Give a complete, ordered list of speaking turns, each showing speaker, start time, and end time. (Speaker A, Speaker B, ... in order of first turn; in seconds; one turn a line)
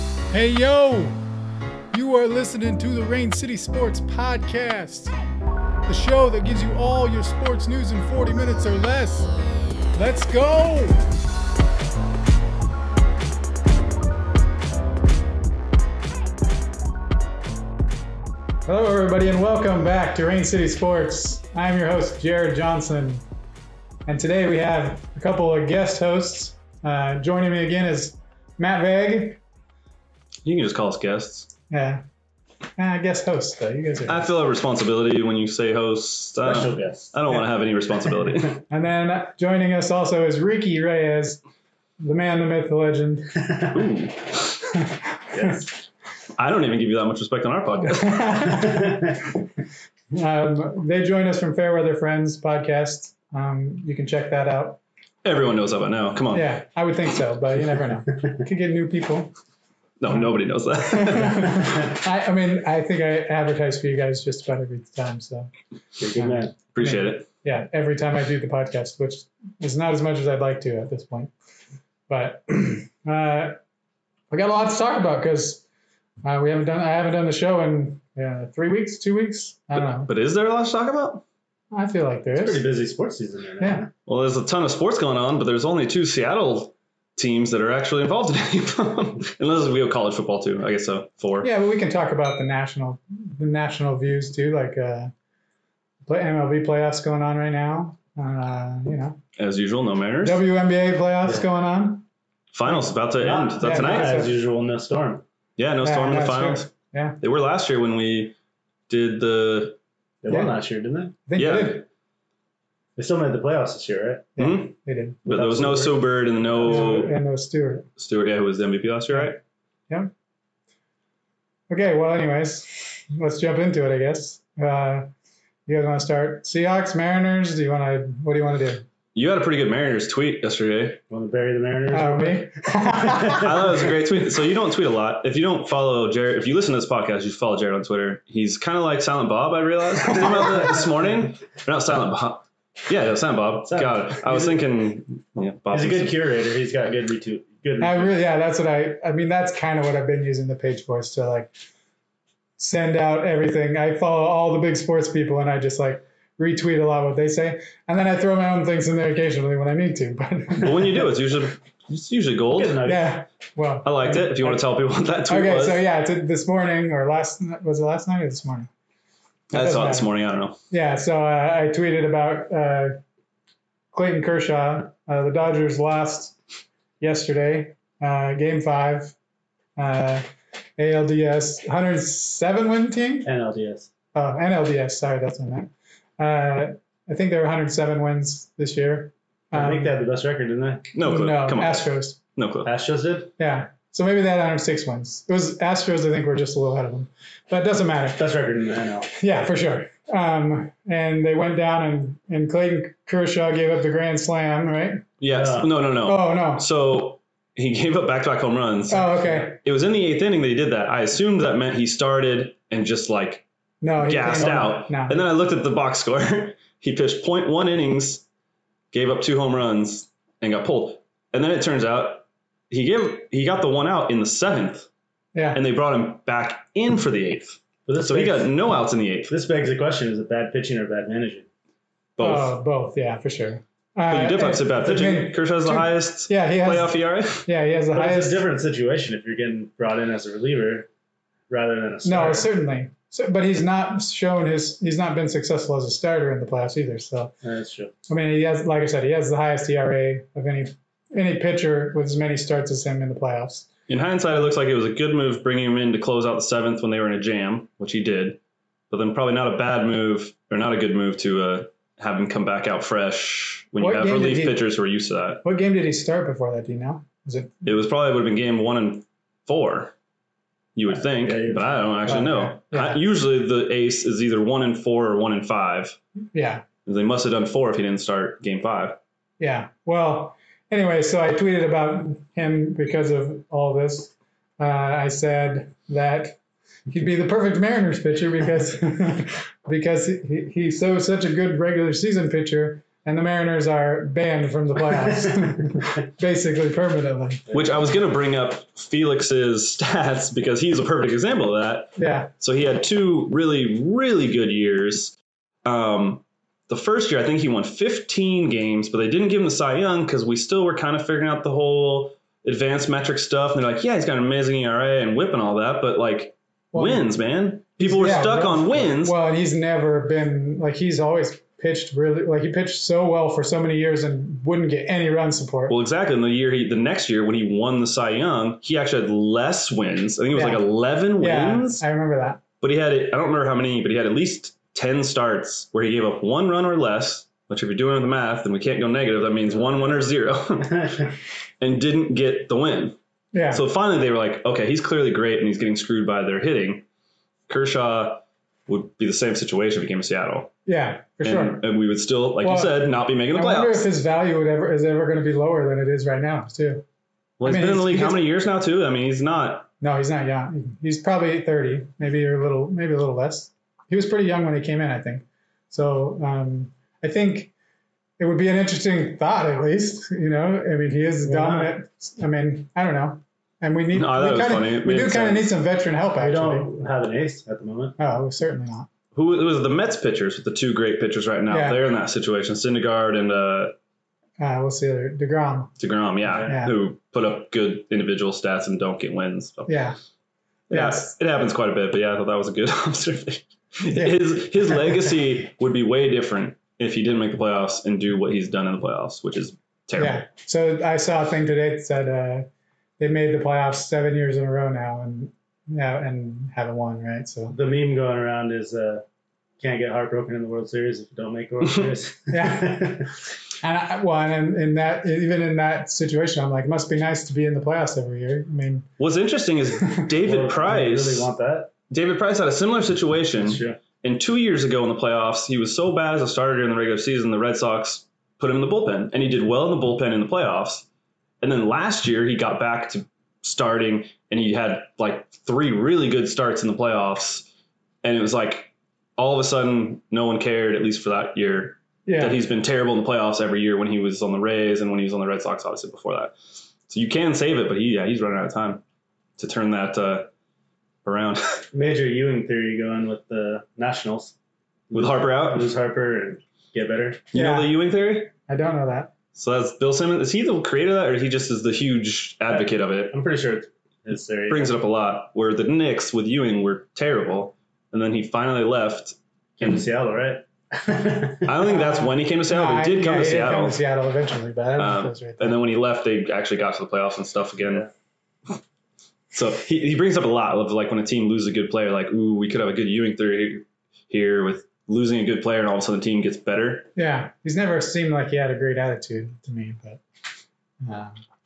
Speaker A: 0.3-1.2
Speaker A: 1.9-5.1
Speaker A: 5.9-9.3
Speaker A: 9.9-11.0
Speaker A: 18.7-23.2
Speaker A: 24.1-29.4
Speaker B: 30.4-31.5
Speaker A: 31.7-32.0
Speaker A: 32.8-34.3
Speaker B: 34.0-38.6
Speaker C: 36.4-37.1
Speaker A: 38.7-41.4
Speaker A: 42.0-43.5
Speaker B: 43.7-44.5
Speaker A: 44.8-45.5
Speaker C: 45.3-45.7
Speaker B: 46.4-48.6
Speaker A: 48.0-49.0
Speaker A: 50.1-54.8
Speaker B: 55.2-56.5
Speaker A: 56.3-59.3
Speaker B: 60.0-61.7
Speaker A: 60.9-65.5
Speaker C: 66.0-66.5
Speaker A: 66.1-71.3
Speaker B: 66.7-67.3
Speaker A: 72.1-73.6
Speaker A: 74.3-75.6
Speaker A: 76.2-80.1
Speaker B: 79.8-81.2
Speaker A: 81.7-82.7
Speaker C: 82.3-83.9
Speaker A: 83.6-83.8
Speaker B: 84.1-91.5
Speaker A: 91.4-95.1
Speaker A: 96.0-99.2
Speaker B: 99.4-100.4
Speaker A: 100.2-102.0
Speaker B: 102.5-104.2
Speaker C: 103.2-105.2
Speaker A: 103.6-104.3
Speaker B: 105.6-108.3
Speaker A: 105.8-107.2
Speaker B: 108.9-109.8
Speaker C: 110.2-111.2
Speaker A: 110.3-110.5
Speaker A: 111.2-111.8
Speaker B: 111.3-111.8
Speaker C: 113.0-114.4
Speaker A: 114.3-117.9
Speaker B: 114.4-117.2
Speaker C: 115.3-115.8
Speaker B: 118.0-119.4
Speaker A: 121.7-125.1
Speaker A: 125.7-128.8
Speaker B: 129.2-131.0
Speaker C: 131.1-133.7
Speaker A: 131.9-133.5
Speaker B: 133.3-146.2
Speaker C: 143.7-144.6
Speaker C: 145.7-148.2
Speaker A: 147.8-151.5
Speaker A: 152.6-161.1
Speaker B: 160.6-162.9
Speaker C: 162.5-163.1
Speaker A: 162.8-164.6
Speaker B: 163.8-165.8
Speaker A: 165.2-168.7
Speaker B: 169.5-170.6
Speaker A: 169.5-170.1
Speaker A: 170.7-173.0
Speaker A: 173.9-176.4
Speaker A: 177.0-179.1
Speaker A: 179.8-180.2
Speaker A: 180.8-183.3
Speaker C: 183.2-183.9
Speaker A: 184.2-189.9
Speaker C: 189.5-190.9
Speaker B: 190.9-192.7
Speaker A: 191.0-192.2
Speaker C: 192.6-193.3
Speaker A: 193.4-198.2
Speaker C: 198.2-199.1
Speaker A: 199.1-205.1
Speaker B: 205.2-213.4
Speaker C: 205.3-205.7
Speaker A: 206.0-206.6
Speaker A: 208.9-209.6
Speaker A: 213.8-215.2
Speaker B: 214.0-218.2
Speaker C: 214.4-214.8
Speaker B: 218.9-224.9
Speaker A: 225.3-225.6
Speaker B: 225.5-229.3
Speaker C: 227.9-228.6
Speaker C: 229.3-231.5
Speaker B: 232.2-232.5
Speaker A: 232.2-238.4
Speaker B: 234.1-237.5
Speaker C: 237.9-240.9
Speaker C: 241.5-242.5
Speaker A: 242.0-247.3
Speaker C: 247.4-247.9
Speaker A: 248.1-253.7
Speaker B: 253.9-258.4
Speaker B: 258.9-265.4
Speaker A: 263.8-264.6
Speaker A: 265.4-267.7
Speaker B: 267.6-269.9
Speaker B: 270.8-276.0
Speaker C: 271.1-271.9
Speaker A: 272.1-273.0
Speaker A: 276.3-276.6
Speaker B: 276.9-279.0
Speaker A: 279.4-286.4
Speaker A: 286.9-297.5
Speaker B: 297.5-319.1
Speaker A: 302.0-302.3
Speaker A: 316.7-317.1
Speaker A: 317.8-325.8
Speaker B: 325.7-331.8
Speaker A: 330.3-330.6
Speaker A: 331.1-332.4
Speaker B: 332.6-341.0
Speaker B: 341.6-343.0
Speaker A: 343.3-343.6
Speaker B: 343.5-346.9
Speaker B: 347.5-350.5
Speaker A: 350.7-351.6
Speaker B: 351.2-353.9
Speaker A: 352.4-356.8
Speaker B: 357.4-359.7
Speaker A: 357.4-358.2
Speaker A: 359.8-367.5
Speaker A: 368.2-376.7
Speaker C: 371.2-371.7
Speaker B: 373.9-375.6
Speaker C: 376.2-377.9
Speaker A: 378.0-378.9
Speaker B: 379.1-383.8
Speaker A: 381.5-381.8
Speaker A: 384.4-385.7
Speaker B: 385.8-389.8
Speaker C: 386.3-386.5
Speaker A: 386.4-386.7
Speaker A: 389.7-390.0
Speaker A: 390.7-391.1
Speaker B: 390.7-400.2
Speaker A: 393.9-394.4
Speaker A: 399.9-402.5
Speaker A: 403.0-407.6
Speaker C: 407.5-409.0
Speaker C: 409.6-413.1
Speaker A: 412.3-413.0
Speaker A: 413.6-418.9
Speaker B: 419.0-421.3
Speaker A: 419.8-420.1
Speaker C: 420.2-421.7
Speaker B: 421.9-430.9
Speaker C: 423.4-423.8
Speaker B: 431.4-437.5
Speaker B: 438.0-446.4
Speaker A: 442.1-442.4
Speaker B: 446.9-448.8
Speaker B: 449.4-450.3
Speaker B: 451.1-451.7
Speaker C: 451.7-454.3
Speaker C: 454.9-457.2
Speaker B: 454.9-455.7
Speaker B: 457.3-458.3
Speaker A: 457.3-457.8
Speaker A: 458.5-459.1
Speaker B: 459.4-463.1
Speaker C: 462.5-464.7
Speaker B: 464.5-469.8
Speaker C: 469.6-471.6
Speaker B: 471.4-473.8
Speaker A: 471.7-475.6
Speaker B: 474.8-477.9
Speaker B: 479.3-486.9
Speaker A: 486.9-490.0
Speaker A: 490.8-491.2